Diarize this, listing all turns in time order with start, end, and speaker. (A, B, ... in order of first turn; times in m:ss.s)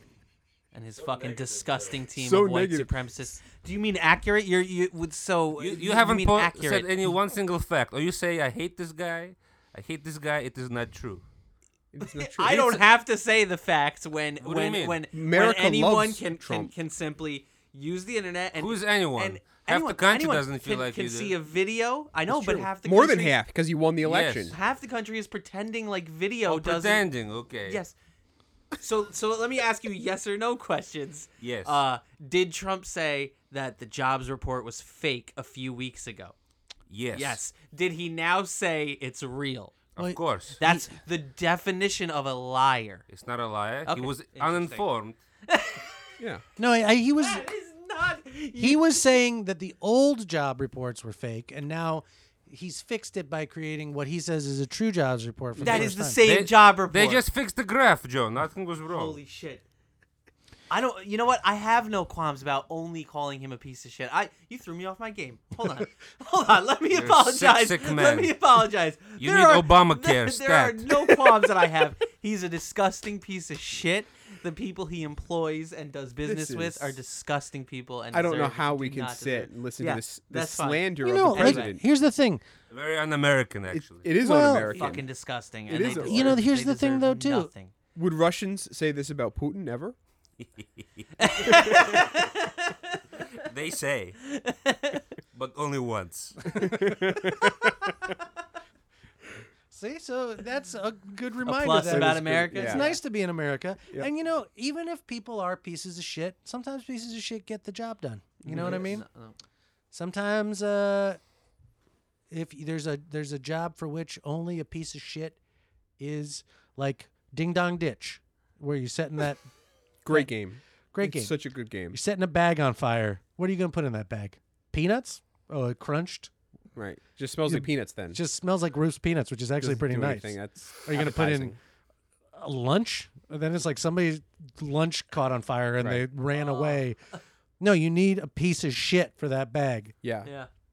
0:00.7-0:06.9 A
0:01.0-0:02.0 B
0:02.1-0:02.9 C
0:05.6-0:11.2 B
0:11.9-0:12.8 C
0:12.0-0:23.4 A
0:14.4-0:15.0 B
0:15.1-0:16.7 C
0:18.6-0:21.4 B
0:22.3-0:24.5 C
0:24.0-0:24.5 B
0:24.4-0:27.1 A
0:26.5-0:27.8 B
0:27.6-0:27.9 A
0:28.8-0:36.3 A
0:31.4-0:31.8 B
0:36.9-0:37.4 B
0:37.1-0:39.8 A
0:40.0-0:40.6 B
0:40.0-0:40.9 D
0:40.6-0:43.0 A
0:43.1-0:45.2 B
0:43.8-0:44.9 A
0:45.4-0:45.9 A
0:46.2-0:46.4 C
0:46.6-0:47.4 D
0:47.2-0:49.0 A
0:48.6-0:56.2 D
0:55.6-0:55.8 C
0:55.6-0:57.2 A
0:56.2-0:59.2 B
0:58.9-0:59.6 A
1:00.7-1:21.8 A
1:06.9-1:08.4 B
1:09.2-1:11.3 B
1:16.2-1:17.0 C
1:18.1-1:21.8 C
1:21.0-1:22.4 D
1:22.7-1:24.1 B
1:23.7-1:25.1 C
1:24.2-1:25.0 D
1:24.6-1:27.7 A
1:25.7-1:26.4 C
1:25.8-1:27.5 D
1:27.9-1:30.0 C
1:30.4-1:32.2 B
1:31.2-1:33.0 A
1:33.4-1:34.2 B
1:34.2-1:35.0 A
1:35.3-1:36.7 B
1:36.6-1:37.9 C
1:39.7-1:49.0 D
1:41.4-1:43.0 A
1:41.9-1:42.9 C
1:48.4-1:48.8 C
1:48.4-1:49.4 A
1:49.9-1:51.2 D
1:52.3-1:55.4 D
1:56.0-1:59.4 D
2:00.0-2:02.0 C
2:00.9-2:01.3 D
2:01.9-2:06.3 D
2:06.7-2:08.2 C
2:07.4-2:11.6 D
2:09.6-2:11.6 C
2:12.3-2:17.0 D
2:15.8-2:16.0 C
2:16.3-2:17.2 A
2:17.6-2:19.9 D
2:20.0-2:20.3 C
2:20.2-2:20.5 A